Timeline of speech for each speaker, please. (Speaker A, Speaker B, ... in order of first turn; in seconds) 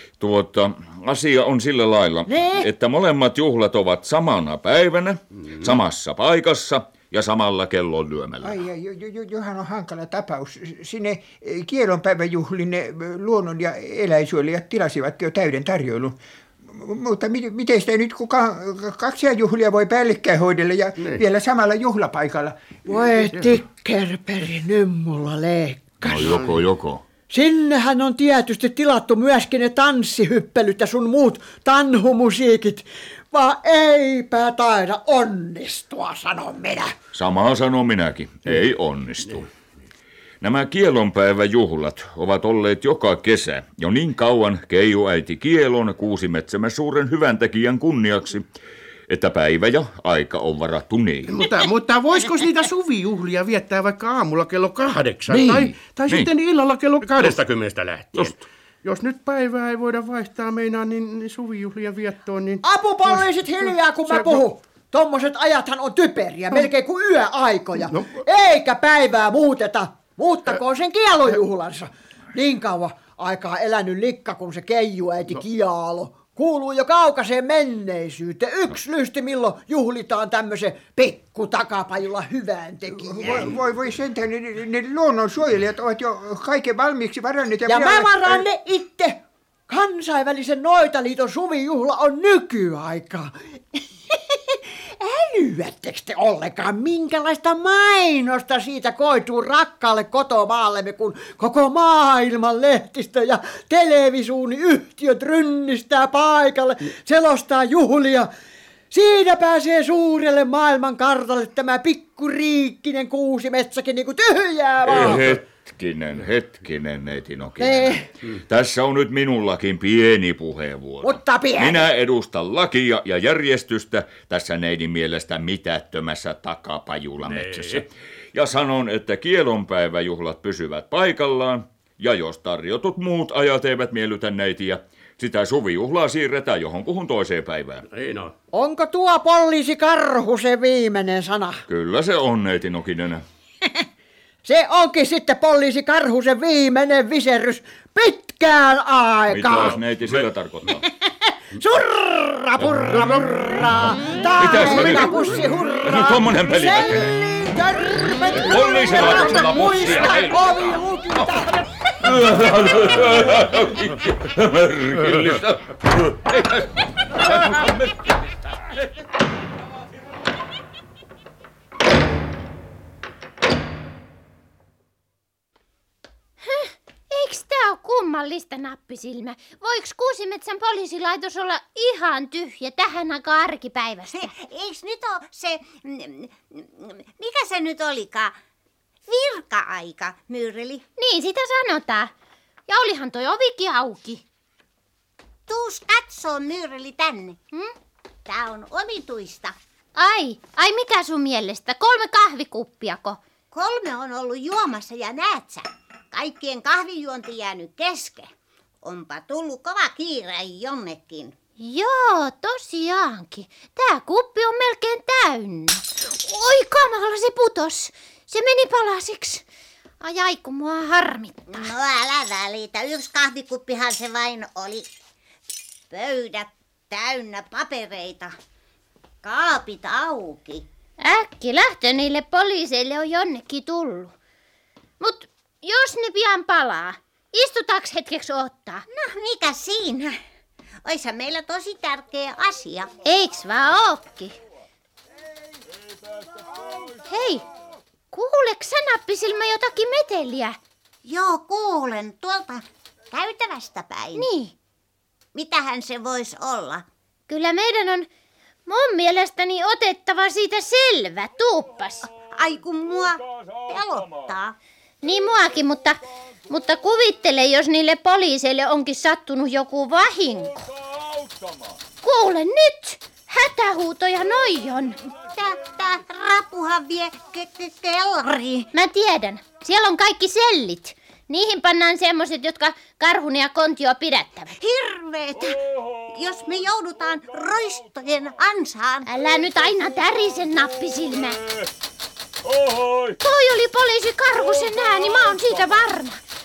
Speaker A: 0.2-8.6, 26.0-27.0, 37.1-39.5, 40.4-48.5, 49.1-51.5, 55.3-56.3, 114.8-137.8, 141.7-143.2, 149.3-150.8, 154.4-155.3, 155.8-157.1, 158.3-160.5, 162.0-167.9, 270.9-271.7, 292.5-293.2, 295.0-295.3
Speaker B: 2.3-2.6, 22.9-26.3, 27.3-36.9, 62.6-83.5, 87.7-108.3, 108.9-115.2, 117.6-118.1, 121.0-121.9, 138.5-141.6, 144.4-149.8, 151.6-161.6
Speaker C: 8.4-22.8, 83.0-88.4
Speaker D: 26.2-26.6, 51.3-63.3, 64.1-64.4, 67.9-68.2, 127.2-127.8, 137.9-138.3
Speaker E: 176.4-184.3, 191.0-192.1, 192.7-194.2, 199.9-203.2, 211.6-219.4, 220.0-221.7, 231.0-234.1, 235.0-238.8, 243.0-244.3, 247.1-247.4, 248.1-250.6, 254.1-254.5, 257.3-258.1, 258.7-262.1, 265.0-270.6, 272.0-275.0, 278.7-284.5, 289.1-291.4, 293.2-296.2
Speaker F: 184.1-188.4, 189.1-190.8, 195.5-197.4, 198.2-199.6, 203.5-208.3, 208.8-211.3, 221.5-224.9, 225.9-228.3, 229.2-230.6, 238.9-240.2, 240.8-242.9, 251.0-254.3, 255.3-256.9, 262.3-264.5, 275.2-278.7, 284.5-289.6